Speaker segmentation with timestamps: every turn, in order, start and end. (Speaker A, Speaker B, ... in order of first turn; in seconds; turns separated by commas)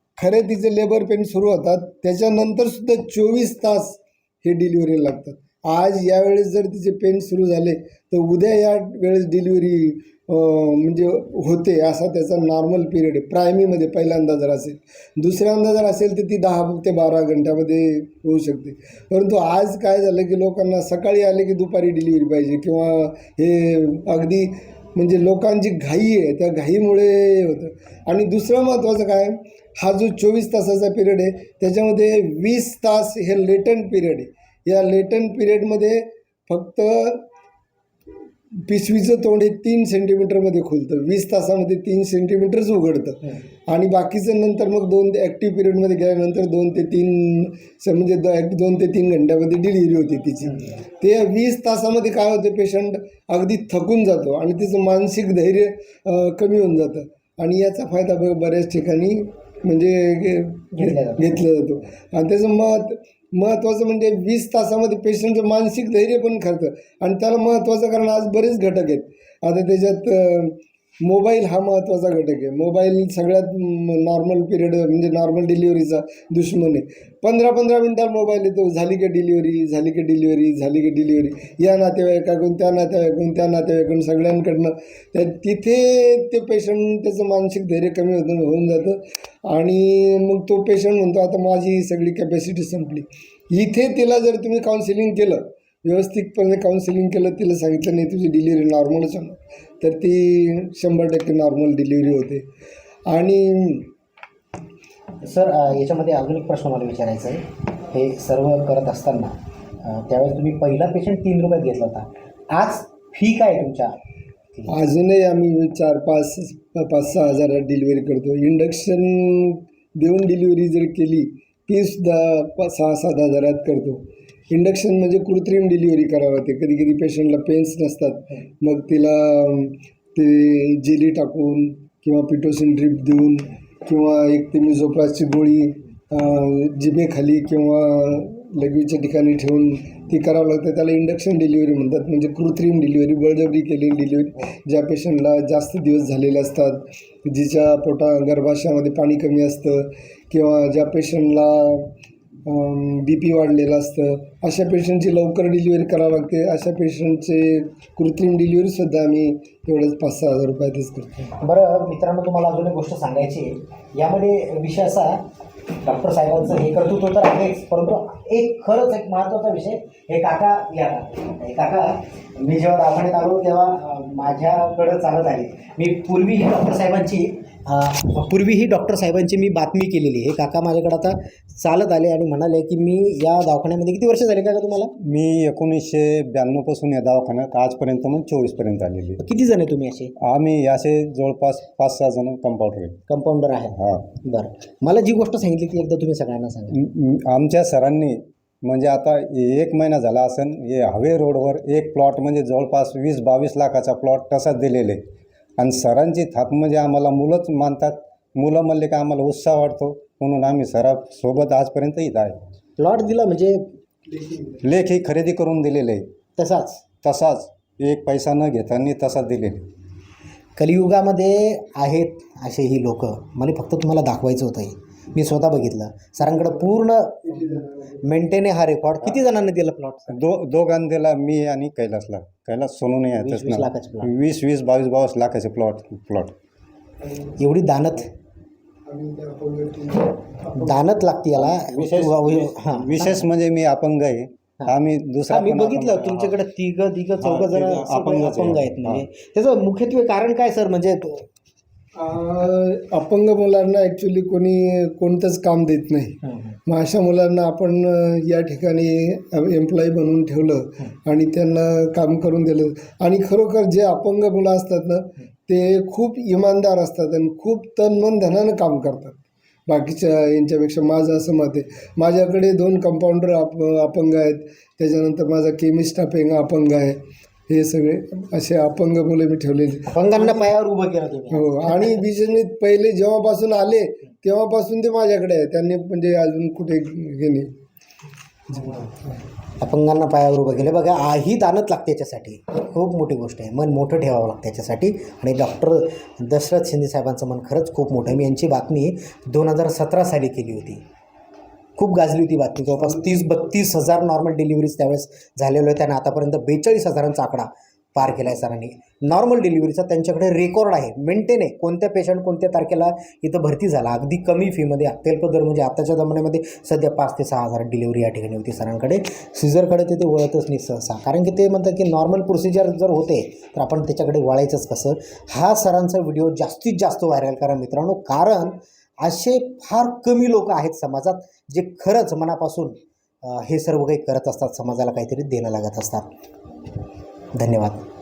Speaker A: 0.2-37.3, Speaker A: 38.6-102.4, Speaker B: 60.8-61.4, Speaker A: 103.1-103.9, Speaker B: 105.2-114.0, Speaker A: 114.7-151.9, Speaker A: 152.4-161.1, Speaker B: 161.4-165.2, Speaker B: 165.8-184.9, Speaker C: 185.0-189.2, Speaker B: 189.2-190.1, Speaker C: 190.2-193.0, Speaker B: 193.1-196.8, Speaker C: 193.8-194.1, Speaker C: 196.8-205.0, Speaker C: 205.6-212.4, Speaker B: 212.8-213.6, Speaker A: 214.1-214.6, Speaker C: 214.6-216.1, Speaker B: 216.4-216.8, Speaker C: 217.0-219.7, Speaker B: 220.6-230.2, Speaker A: 226.2-226.7, Speaker A: 227.2-228.1, Speaker C: 230.1-236.3, Speaker B: 233.2-234.1, Speaker A: 237.1-237.4, Speaker B: 237.4-238.1, Speaker A: 238.9-240.9, Speaker B: 240.6-243.3, Speaker C: 241.3-246.4, Speaker B: 245.3-251.3, Speaker C: 247.2-249.1, Speaker A: 252.0-280.5, Speaker B: 256.3-256.6, Speaker B: 279.9-282.0, Speaker A: 281.3-287.5, Speaker A: 288.5-289.1, Speaker B: 289.6-300.8, Speaker B: 301.8-336.1, Speaker B: 337.4-337.8